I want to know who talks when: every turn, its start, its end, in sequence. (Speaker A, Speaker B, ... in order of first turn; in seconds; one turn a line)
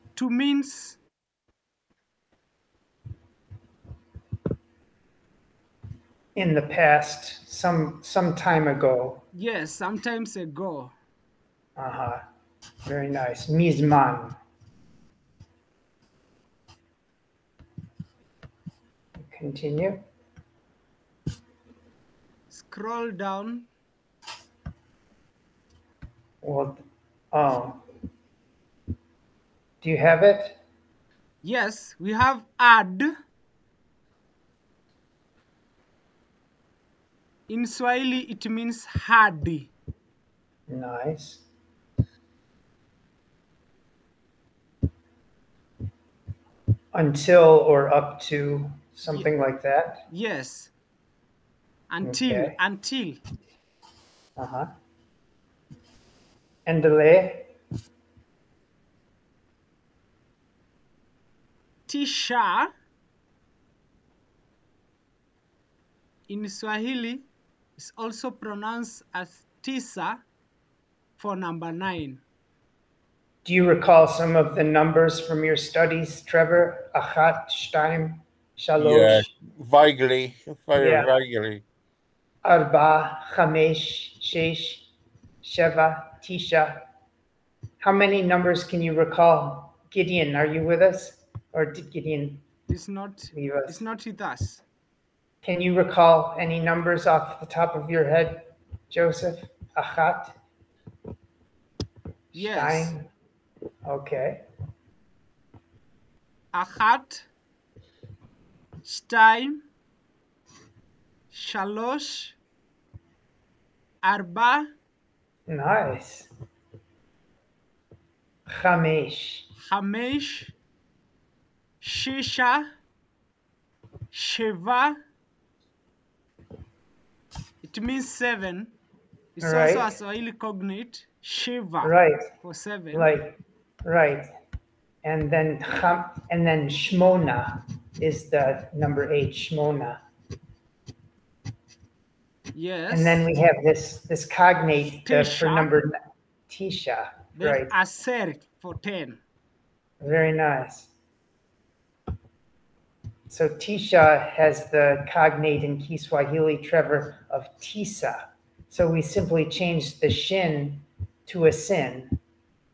Speaker A: 0.1-1.0
Speaker B: 6.3-9.2
Speaker A: 9.3-10.9
Speaker B: 11.8-12.2
Speaker B: 12.9-14.4
Speaker B: 19.2-20.0
Speaker A: 22.5-23.7
Speaker B: 26.4-26.8
Speaker B: 27.3-27.8
Speaker B: 29.8-30.6
Speaker A: 31.4-33.1
Speaker A: 37.5-39.7
Speaker B: 40.7-41.4
Speaker B: 46.9-50.0
Speaker A: 50.1-50.7
Speaker A: 51.9-53.2
Speaker B: 52.0-52.6
Speaker B: 54.4-54.7
Speaker B: 56.7-57.5
Speaker A: 61.9-62.7
Speaker A: 66.3-70.2
Speaker A: 71.2-72.2
Speaker B: 73.5-79.3
Speaker C: 78.8-81.6
Speaker B: 80.8-81.1
Speaker B: 82.4-84.9
Speaker B: 85.4-86.8
Speaker B: 87.8-92.4
Speaker A: 92.7-94.6
Speaker B: 93.3-93.8
Speaker B: 95.4-100.4
Speaker B: 102.3-103.1
Speaker A: 102.3-103.0
Speaker B: 103.8-104.5
Speaker A: 106.5-107.3
Speaker A: 108.8-109.6
Speaker A: 111.3-112.4
Speaker A: 114.0-114.7
Speaker B: 115.5-116.3
Speaker B: 118.5-119.5
Speaker A: 119.7-120.5
Speaker A: 121.8-122.7
Speaker A: 124.1-125.0
Speaker A: 127.6-128.8
Speaker A: 129.4-133.1
Speaker B: 129.4-129.9
Speaker B: 131.8-132.2
Speaker B: 132.9-134.3
Speaker B: 135.0-140.0
Speaker A: 142.5-143.2
Speaker B: 142.9-145.9
Speaker A: 145.1-145.7
Speaker B: 146.5-147.7
Speaker A: 147.4-149.2
Speaker B: 150.0-150.9
Speaker B: 153.3-162.1